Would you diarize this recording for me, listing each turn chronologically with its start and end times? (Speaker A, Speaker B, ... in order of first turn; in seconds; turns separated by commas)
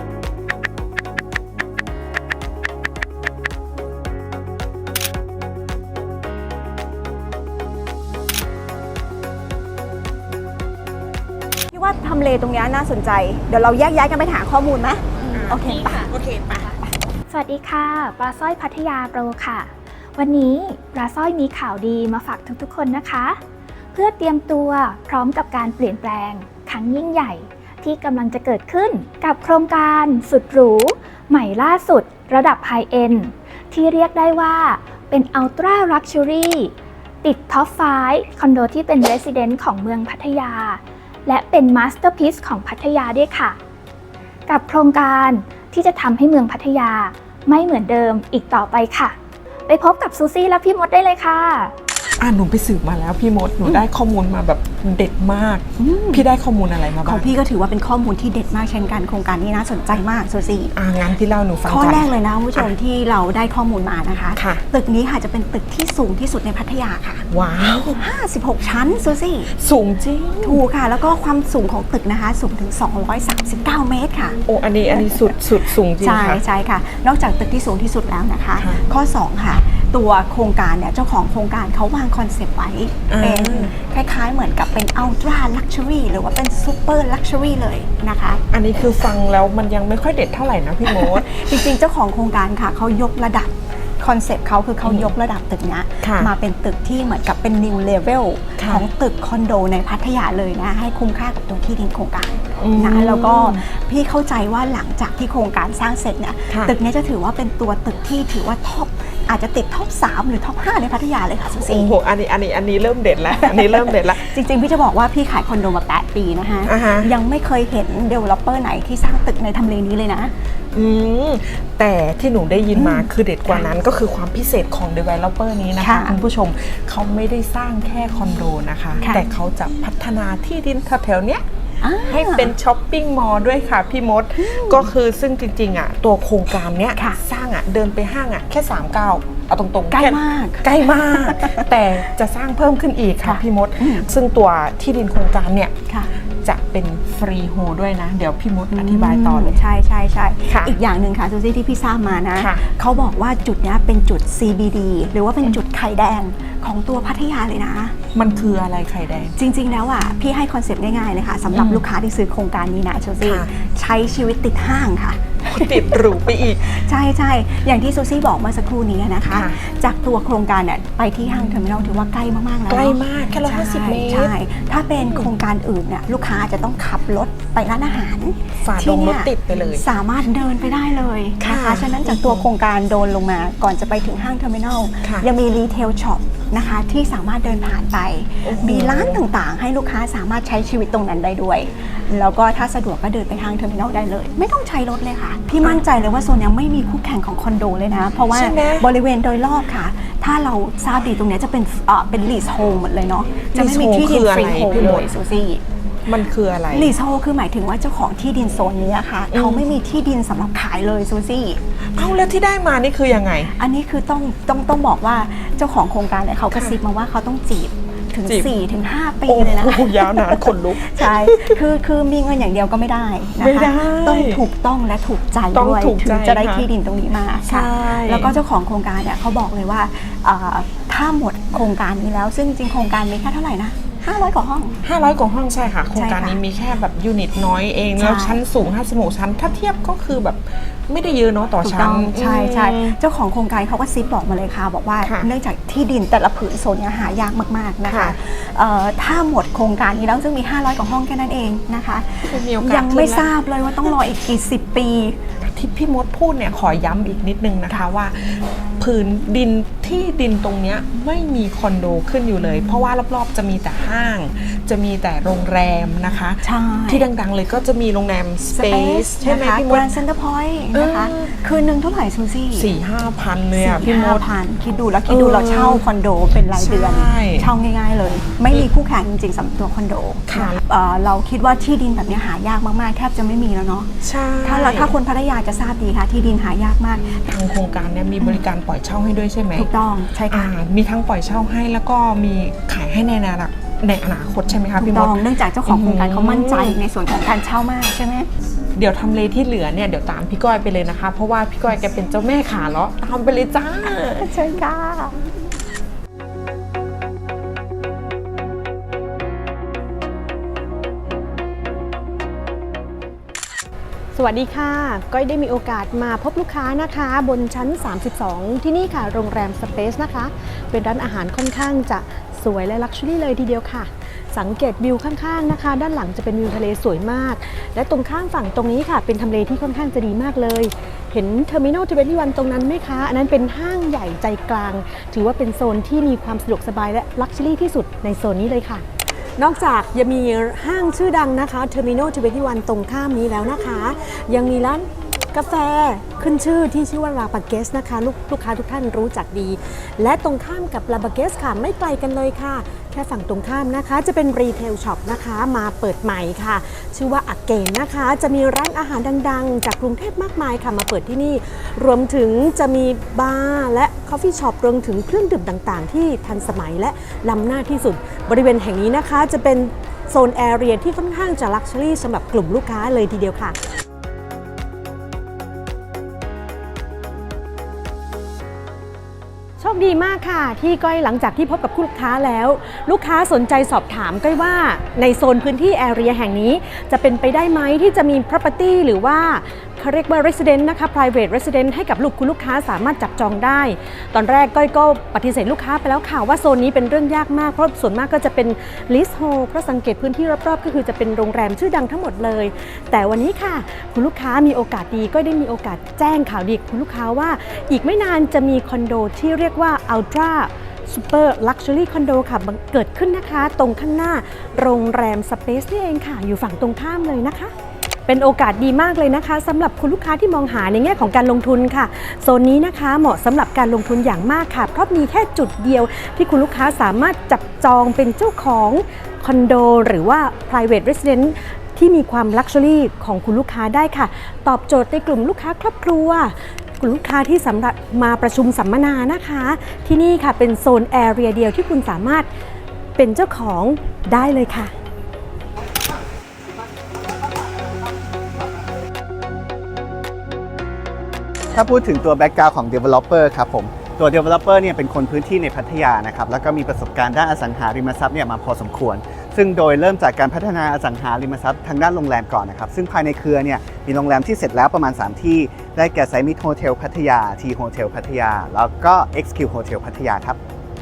Speaker A: 11.7-16.8, Speaker B: 15.4-16.4, Speaker C: 17.3-23.4, Speaker C: 23.9-43.6, Speaker C: 44.5-49.1, Speaker C: 49.7-51.7, Speaker B: 52.2-57.3, Speaker A: 53.6-53.9, Speaker A: 55.8-56.3, Speaker A: 57.0-60.8, Speaker B: 60.7-62.7, Speaker A: 61.6-67.3, Speaker B: 64.3-64.6, Speaker B: 67.3-68.0, Speaker A: 68.0-69.5, Speaker B: 69.5-70.6, Speaker A: 70.4-88.4, Speaker B: 74.5-76.4, Speaker B: 83.1-83.7, Speaker B: 88.5-91.2, Speaker A: 90.8-112.0, Speaker B: 94.8-95.1, Speaker B: 96.0-96.3, Speaker B: 98.6-98.8, Speaker B: 102.6-103.6, Speaker B: 111.6-114.3, Speaker A: 113.2-120.3, Speaker B: 116.7-117.1, Speaker B: 120.7-131.4, Speaker A: 122.7-123.7, Speaker A: 125.8-126.2, Speaker A: 129.0-129.2, Speaker A: 131.8-132.5, Speaker B: 132.1-145.7, Speaker A: 134.4-134.9, Speaker A: 136.9-137.2, Speaker A: 139.9-142.1, Speaker A: 143.2-144.1, Speaker B: 146.4-149.6, Speaker A: 148.7-158.0, Speaker B: 150.5-150.8, Speaker B: 158.1-159.3, Speaker A: 159.3-205.6, Speaker B: 161.5-161.8, Speaker B: 163.2-163.5, Speaker B: 165.5-166.7, Speaker B: 169.3-169.6, Speaker B: 172.7-174.3, Speaker B: 175.0-175.3, Speaker B: 178.6-179.9, Speaker B: 181.4-182.5, Speaker B: 188.4-189.2, Speaker B: 198.3-198.8, Speaker B: 203.5-205.1, Speaker B: 206.0-206.9, Speaker A: 206.7-211.6, Speaker B: 209.3-209.6, Speaker B: 211.9-213.5, Speaker A: 213.5-234.8, Speaker B: 216.5-216.8, Speaker B: 218.3-218.5, Speaker B: 219.3-221.6, Speaker B: 223.4-224.4, Speaker B: 225.5-226.7, Speaker B: 227.4-228.3, Speaker B: 234.8-243.0, Speaker A: 235.9-236.4, Speaker A: 237.9-238.4, Speaker A: 241.6-255.2, Speaker B: 247.9-248.1, Speaker B: 252.3-253.2, Speaker B: 255.4-269.9, Speaker A: 266.4-267.1, Speaker A: 268.5-272.8, Speaker B: 270.7-271.3, Speaker B: 272.5-274.2, Speaker A: 273.5-287.2, Speaker B: 275.1-275.8, Speaker B: 276.5-277.5, Speaker B: 280.3-280.6, Speaker B: 284.0-284.9, Speaker B: 287.2-289.7, Speaker A: 288.2-288.5, Speaker A: 289.5-290.5, Speaker B: 290.3-296.8, Speaker A: 294.7-298.3, Speaker B: 298.7-304.3, Speaker A: 304.1-305.2, Speaker D: 314.1-338.8, Speaker D: 339.4-373.6, Speaker D: 379.6-417.5, Speaker D: 418.1-442.3, Speaker D: 443.0-444.7, Speaker E: 451.5-470.4